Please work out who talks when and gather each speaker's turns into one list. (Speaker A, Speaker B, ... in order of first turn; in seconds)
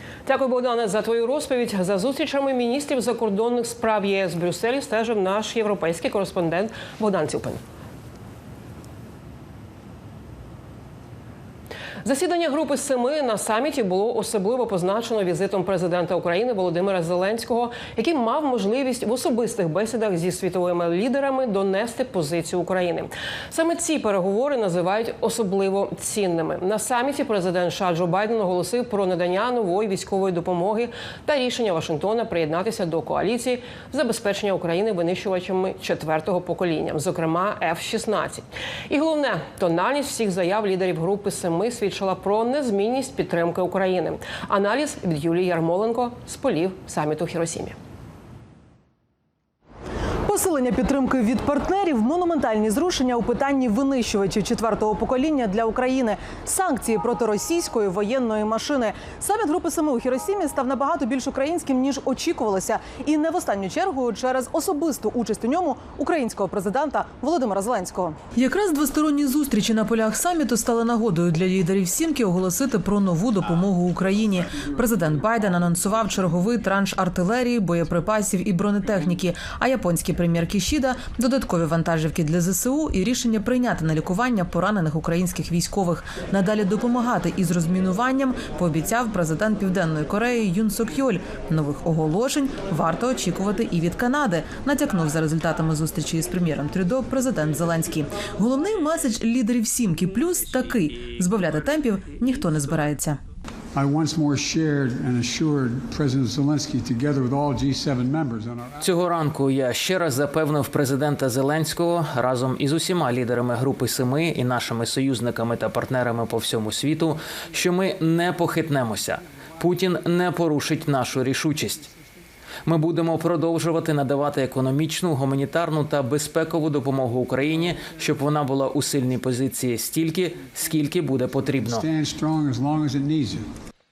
Speaker A: 0.3-7.6, 12.0-47.8
Speaker B: 50.3-68.2
Speaker C: 68.4-103.2
Speaker D: 103.7-108.8, 131.7-133.6
Speaker E: 108.8-121.9, 122.7-131.9